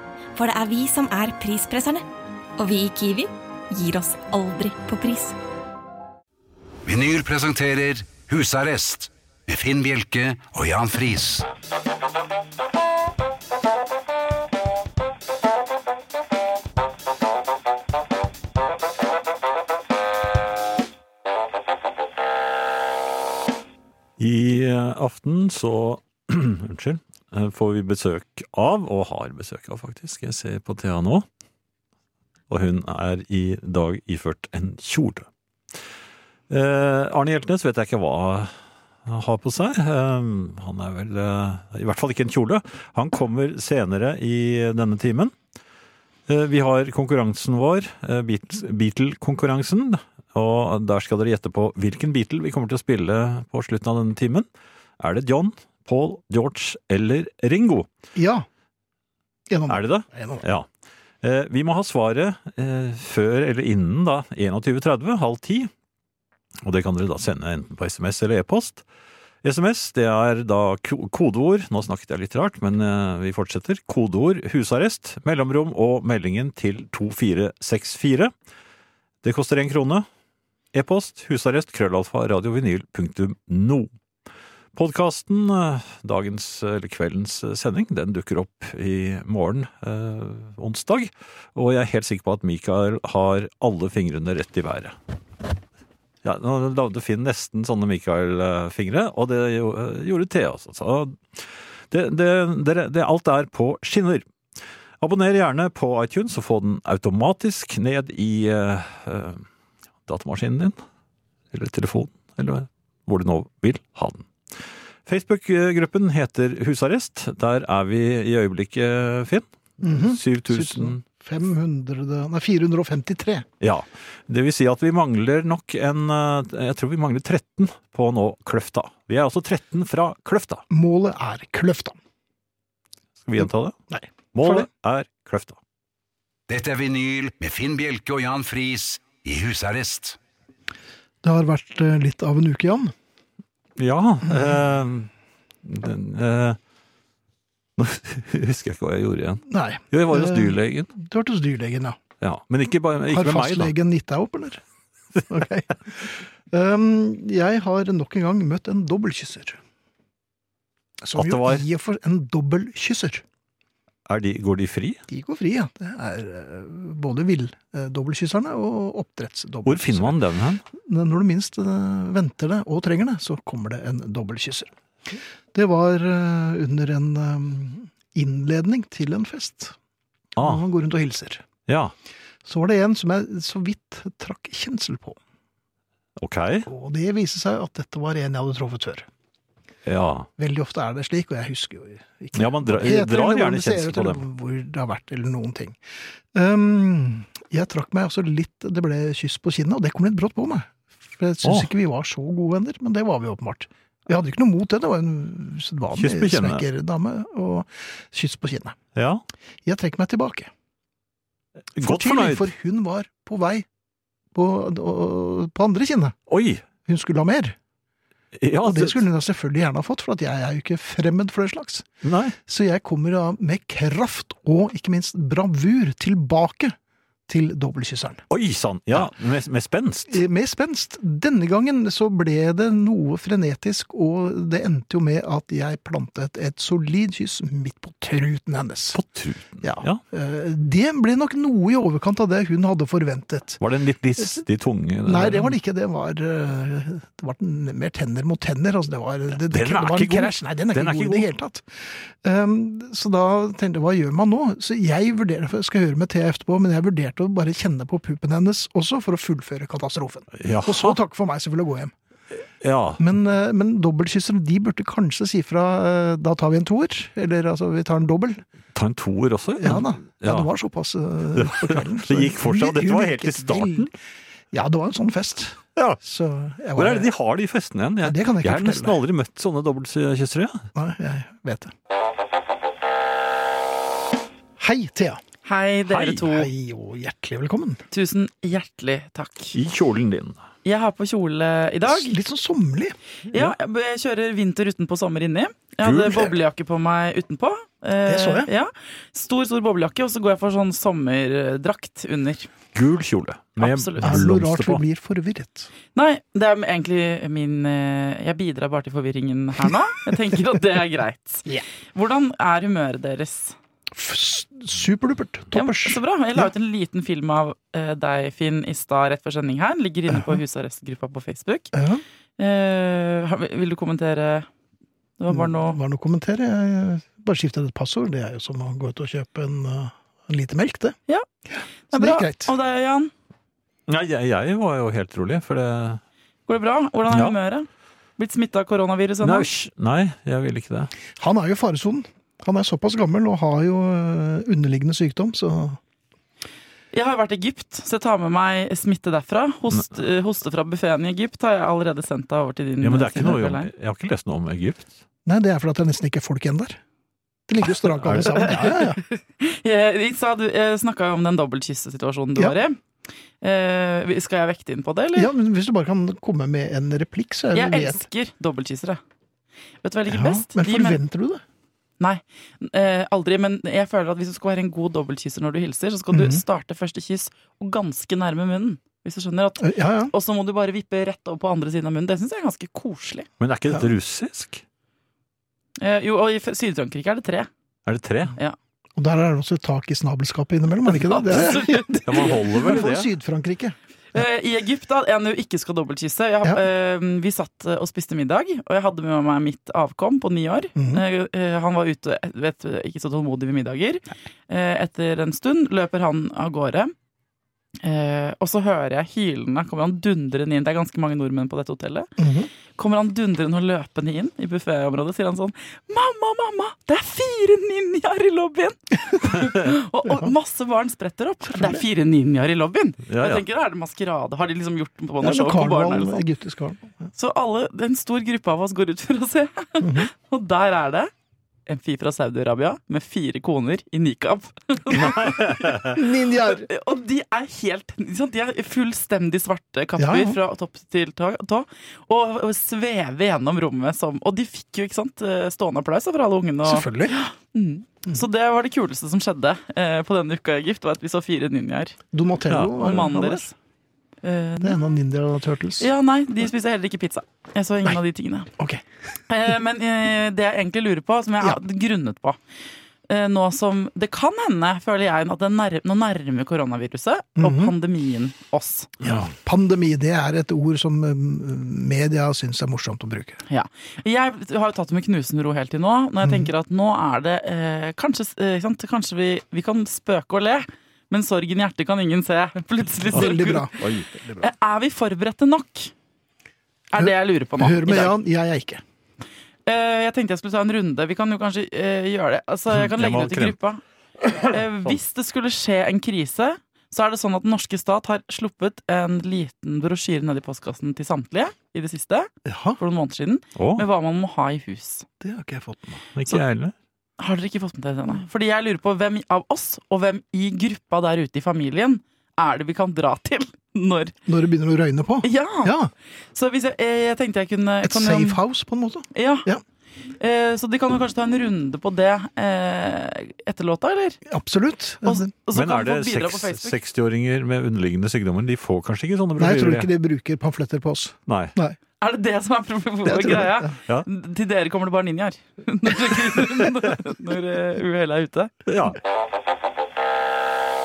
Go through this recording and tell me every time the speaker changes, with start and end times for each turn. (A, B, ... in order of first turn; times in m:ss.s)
0:00.3-0:02.0 A
0:02.6-0:05.4 A
0:06.8-0:11.5 B
0:24.2-0:31.2 C
0:32.5-0:35.3 C
0:36.5-0:38.5 C
0:39.0-0:45.3 C
0:46.3-0:54.5 C
0:55.0-0:57.9 C
0:58.1-0:58.4 D
0:59.5-1:00.4 D
0:59.7-1:00.6 C
1:01.2-1:05.7 C
1:06.6-1:08.8 C
1:09.4-1:18.3 C
1:19.2-1:20.0 C
1:20.7-1:23.9 C
1:24.7-1:35.0 C
1:36.2-1:44.2 C
1:45.0-1:49.4 C
1:50.1-1:50.8 C
1:51.5-1:54.3 C
1:55.0-2:01.0 C
1:59.8-2:03.5 D
2:03.6-2:10.6 C
2:10.7-2:12.0 D
2:13.2-2:13.8 C
2:13.4-2:14.7 D
2:14.3-2:15.6 C
2:16.5-2:20.2 B
2:21.2-2:22.9 D
2:23.8-2:25.1 C
2:24.2-2:24.6 D
2:25.6-2:26.6 C
2:27.8-2:30.9 C
2:29.5-2:32.0 D
2:32.2-2:33.7 C
2:33.1-2:34.6 D
2:35.3-2:39.6 D
2:41.0-2:43.2 D
2:41.2-2:41.6 C
2:44.1-2:45.0 C
2:45.1-2:50.2 D
2:49.6-2:50.6 C
2:50.7-2:59.8 D
3:00.4-3:01.4 D
3:00.4-3:00.6 C
3:01.7-3:01.9 C
3:02.4-3:05.2 D
3:06.2-3:06.7 C
3:06.6-3:09.1 D
3:09.8-3:10.3 C
3:10.4-3:15.8 D
3:12.3-3:14.2 C
3:16.3-3:28.8 D
3:21.4-3:21.7 C
3:25.9-3:26.6 C
3:28.9-3:29.2 C
3:29.6-3:30.5 D
3:31.7-3:32.5 C
3:31.8-3:33.7 D
3:34.3-3:36.2 D
3:36.3-3:36.6 C
3:36.8-3:37.6 D
3:38.4-3:39.0 C
3:38.6-3:41.9 D
3:42.0-3:42.4 C
3:42.4-3:46.8 D
3:47.3-3:48.2 D
3:48.3-3:50.2 C
3:50.1-3:59.0 D
3:58.9-4:00.0 C
3:59.6-4:03.6 D
4:03.6-4:05.5 C
4:05.0-4:21.9 D
4:09.4-4:11.3 C
4:20.4-4:21.0 C
4:22.6-4:23.0 C
4:23.0-4:28.4 D
4:28.7-4:30.5 C
4:29.6-4:33.9 D
4:31.4-4:33.9 C
4:34.5-4:37.1 D
4:36.8-4:40.6 C
4:38.0-4:39.0 D
4:40.7-4:41.7 D
4:44.6-4:45.2 D
4:45.4-4:46.5 E
4:45.9-4:46.2 C
4:46.1-4:47.8 D
4:47.9-4:49.5 E
4:49.5-4:50.4 C
4:50.6-4:52.2 E
4:51.8-4:53.0 D
4:53.3-5:02.5 E
4:55.8-4:56.3 C
4:58.0-4:58.5 D
5:02.7-5:04.8 C
5:03.6-5:04.3 E
5:04.0-5:05.7 D
5:05.9-5:13.6 E
5:13.9-5:16.5 D
5:15.5-5:21.7 E
5:20.1-5:20.4 D
5:21.7-5:22.0 D
5:22.4-5:24.5 E
5:25.2-5:25.8 E
5:25.3-5:32.5 D
5:31.9-5:33.1 E
5:33.9-5:36.0 C
5:36.5-5:39.5 E
5:37.1-5:37.4 C
5:39.2-5:40.9 C
5:41.2-5:45.8 D
5:46.9-5:53.7 E
5:52.8-5:55.0 C
5:55.2-5:56.8 D
5:57.5-5:59.0 D
5:58.0-5:58.5 C
5:58.4-6:02.8 E
6:03.4-6:05.3 E
6:05.1-6:08.0 D
6:07.5-6:09.0 E
6:09.8-6:11.0 E
6:10.1-6:11.4 D
6:12.0-6:23.3 E
6:16.1-6:16.4 D
6:19.6-6:20.1 D
6:23.4-6:24.6 C
6:25.8-6:27.5 E
6:27.8-6:28.4 C
6:29.0-6:33.8 D
6:30.9-6:32.3 E
6:32.0-6:33.1 C
6:34.1-6:46.9 E
6:40.8-6:41.0 D
6:47.8-6:52.1 E
6:52.2-6:52.5 D
6:52.7-7:06.2 E
7:00.0-7:00.3 D
7:01.5-7:01.8 D
7:03.1-7:03.4 C
7:05.2-7:07.1 D
7:07.2-7:11.1 E
7:09.8-7:10.1 D
7:11.7-7:16.0 E
7:14.9-7:16.0 C
7:15.8-7:16.7 D
7:16.5-7:32.0 E
7:20.0-7:20.4 D
7:26.6-7:27.2 D
7:32.1-7:33.5 D
7:32.5-7:33.0 C
7:32.7-7:33.5 E
7:34.2-7:34.8 E
7:34.6-7:35.9 D
7:35.8-7:38.5 E
7:38.6-7:38.8 D
7:39.3-7:42.4 E
7:43.1-7:48.9 E
7:47.4-7:47.7 D
7:49.0-7:53.4 D
7:53.5-8:03.7 E
7:56.2-7:56.5 D
8:03.1-8:04.5 D
8:03.1-8:04.1 C
8:04.4-8:05.9 E
8:06.9-8:08.1 E
8:07.0-8:08.8 D
8:09.6-8:13.8 E
8:12.7-8:13.6 C
8:14.4-8:15.0 C
8:14.4-8:25.0 E
8:22.4-8:22.8 D
8:23.6-8:23.8 C
8:25.2-8:26.0 D
8:26.1-8:26.7 C
8:27.2-8:34.1 E
8:34.3-8:35.9 D
8:35.2-8:35.7 E
8:36.3-8:38.4 E
8:37.8-8:39.6 D
8:39.1-8:39.5 E
8:40.2-8:44.2 E
8:44.2-8:45.3 D
8:45.0-8:46.8 E
8:45.5-8:49.9 C
8:49.4-8:51.8 D
8:51.3-8:51.6 C
8:52.0-8:58.5 E
8:53.0-8:53.7 D
8:58.6-8:59.0 C